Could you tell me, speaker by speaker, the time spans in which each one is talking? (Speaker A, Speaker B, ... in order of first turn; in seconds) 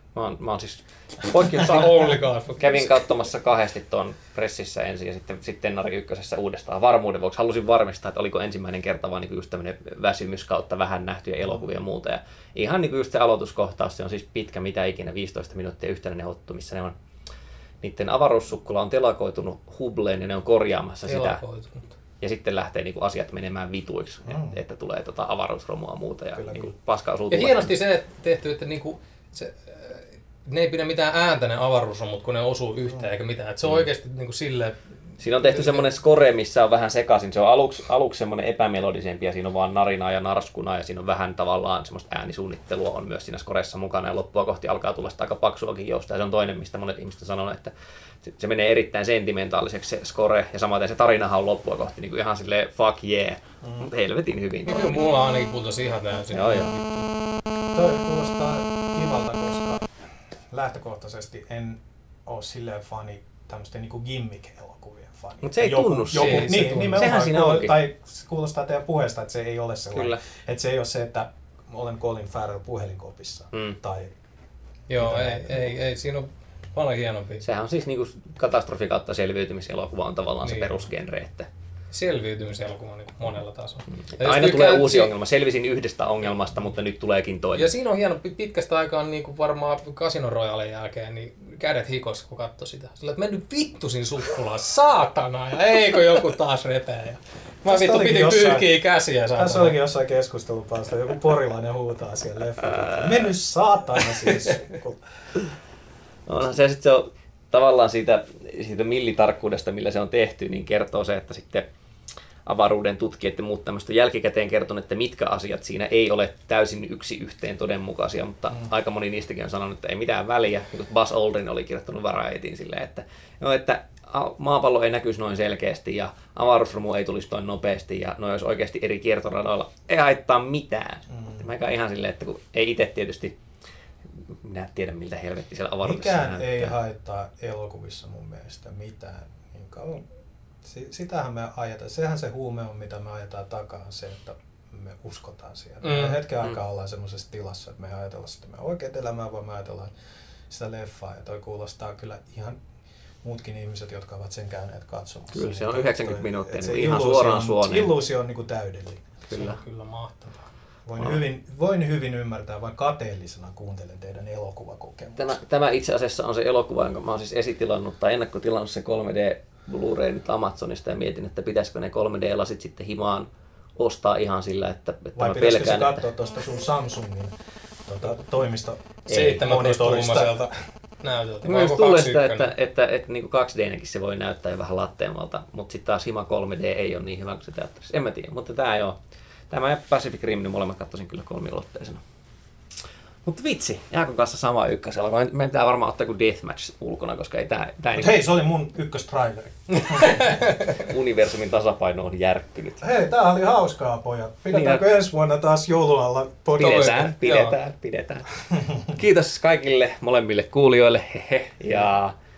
Speaker A: 0.1-16.9, 17.8-21.4, 22.2-27.7, 35.2-55.0, 56.3-56.7, 65.4-67.8, 69.9-70.2, 77.4-81.5, 84.1-87.7, 102.6-103.3, 106.3-111.7, 112.5-133.3, 134.3-136.7, 155.3-157.9, 159.3-159.6, 165.2-176.0, 179.1-179.4, 181.4-189.0, 189.5-192.0, 193.2-198.2, 200.7-202.8, 204.5-204.8, 206.6-212.1
Speaker B: 1.4-3.0, 21.1-21.9, 27.3-34.8, 35.4-35.9, 54.6-57.0, 66.1-67.1, 74.9-77.4, 80.4-80.8, 81.9-85.1, 87.5-99.8, 145.8-146.2, 159.3-160.4, 179.1-180.5, 181.0-182.5, 199.7-200.9, 206.6-207.6
Speaker C: 24.2-24.6, 26.3-26.7, 57.7-59.9, 60.5-74.1, 75.0-75.7, 97.6-98.7, 99.4-105.0, 131.1-131.4, 135.8-140.1, 140.6-149.9, 150.5-152.6, 153.2-159.1, 160.8-165.4, 175.2-177.3, 177.8-180.5, 197.9-200.3, 202.8-207.0, 208.6-208.9